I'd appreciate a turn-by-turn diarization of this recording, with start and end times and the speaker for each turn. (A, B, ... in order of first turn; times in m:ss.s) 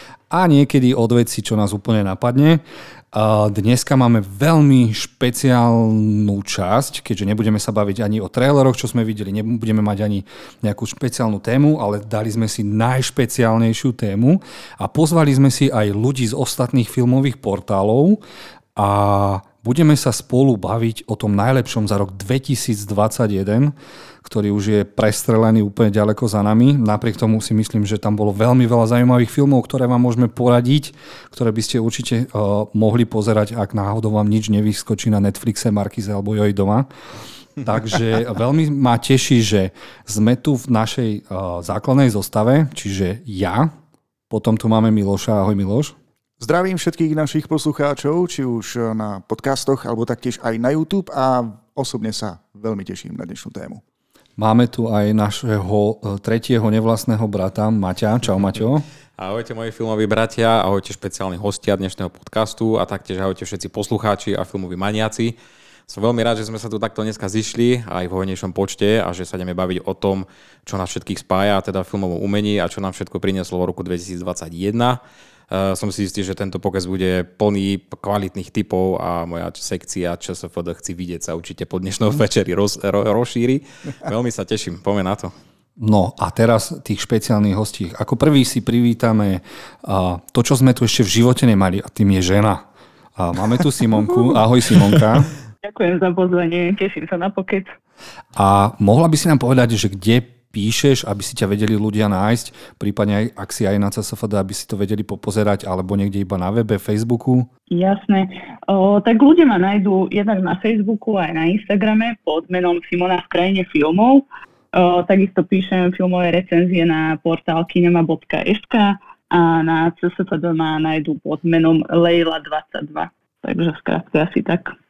0:00.3-0:18.2 A
0:18.8-0:36.9 A
0:37.6-0:43.7 A
0:44.3-0:46.0 A
0:46.4-0:53.8 B
0:54.4-0:58.9 A
0:59.2-1:05.4 C
1:05.9-1:15.0 C
1:15.5-1:25.3 C
1:25.8-1:32.6 A
1:33.2-1:35.3 A
1:35.6-1:37.7 D
1:38.3-1:47.5 A
1:47.7-2:04.7 D